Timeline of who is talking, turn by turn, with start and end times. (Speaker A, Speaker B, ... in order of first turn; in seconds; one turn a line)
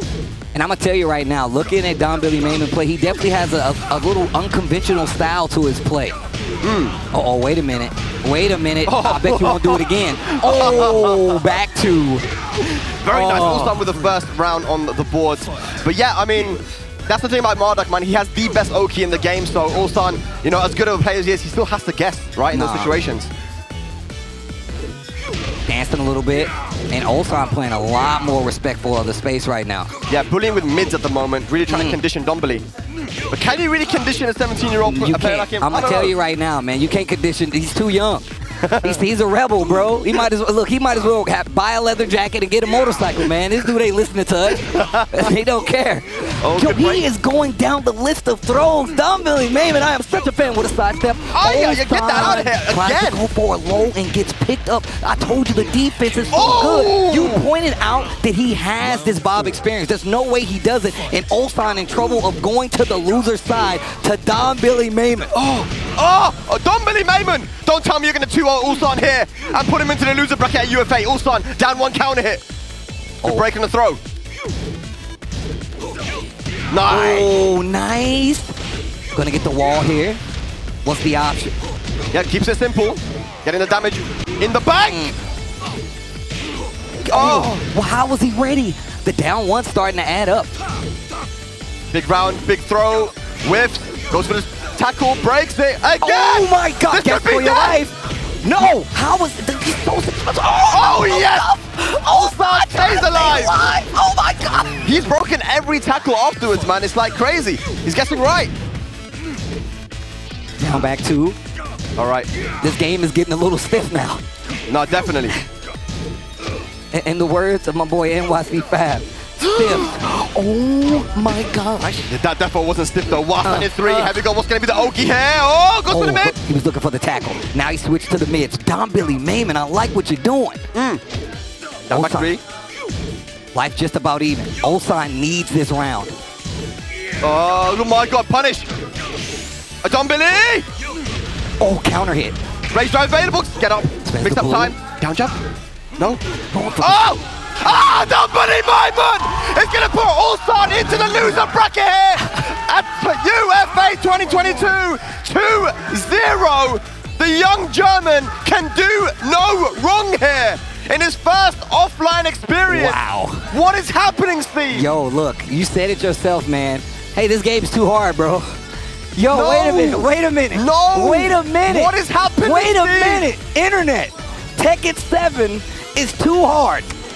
Speaker A: 0.5-6.2
Speaker B: 6.6-7.0
Speaker A: 7.1-12.3
Speaker B: 8.9-11.4
Speaker B: 12.8-23.3
Speaker A: 13.1-13.8
Speaker A: 22.5-23.0
Speaker A: 25.7-29.9
Speaker B: 30.1-32.6
Speaker A: 31.7-32.0
Speaker B: 33.3-36.1
Speaker A: 34.8-38.3
Speaker B: 38.6-39.0
Speaker A: 38.8-65.3
Speaker B: 44.5-45.3
Speaker B: 46.4-47.0
Speaker B: 51.3-53.2
Speaker B: 56.3-57.5
Speaker B: 65.3-72.4
Speaker B: 73.2-74.0
Speaker B: 76.7-77.3
Speaker A: 76.9-78.5
Speaker A: 79.2-80.2
Speaker A: 80.8-81.5
Speaker B: 82.1-85.1
Speaker A: 84.8-85.2
Speaker A: 87.0-90.5
Speaker B: 87.1-87.6
Speaker B: 91.9-97.8
Speaker A: 96.0-104.9
Speaker B: 100.6-101.5
Speaker B: 102.0-103.6
Speaker B: 104.8-108.5
Speaker A: 110.6-111.4
Speaker B: 112.0-112.3
Speaker A: 112.6-114.2
Speaker B: 114.7-115.4
Speaker A: 116.9-122.1
Speaker B: 119.4-119.8
Speaker B: 122.1-126.4
Speaker A: 123.4-124.2
Speaker A: 125.9-130.6
Speaker B: 130.8-131.0
Speaker B: 131.9-132.4
Speaker A: 131.9-132.4
Speaker A: 133.5-136.2
Speaker B: 137.2-138.7
Speaker B: 139.8-140.7
Speaker A: 141.6-142.4
Speaker B: 142.7-145.3
Speaker A: 144.1-144.8
Speaker A: 146.5-147.1
Speaker B: 146.8-163.0
Speaker A: 162.7-163.5
Speaker B: 163.5-164.9
Speaker A: 164.7-168.5
Speaker A: 169.2-176.9
Speaker B: 169.3-173.3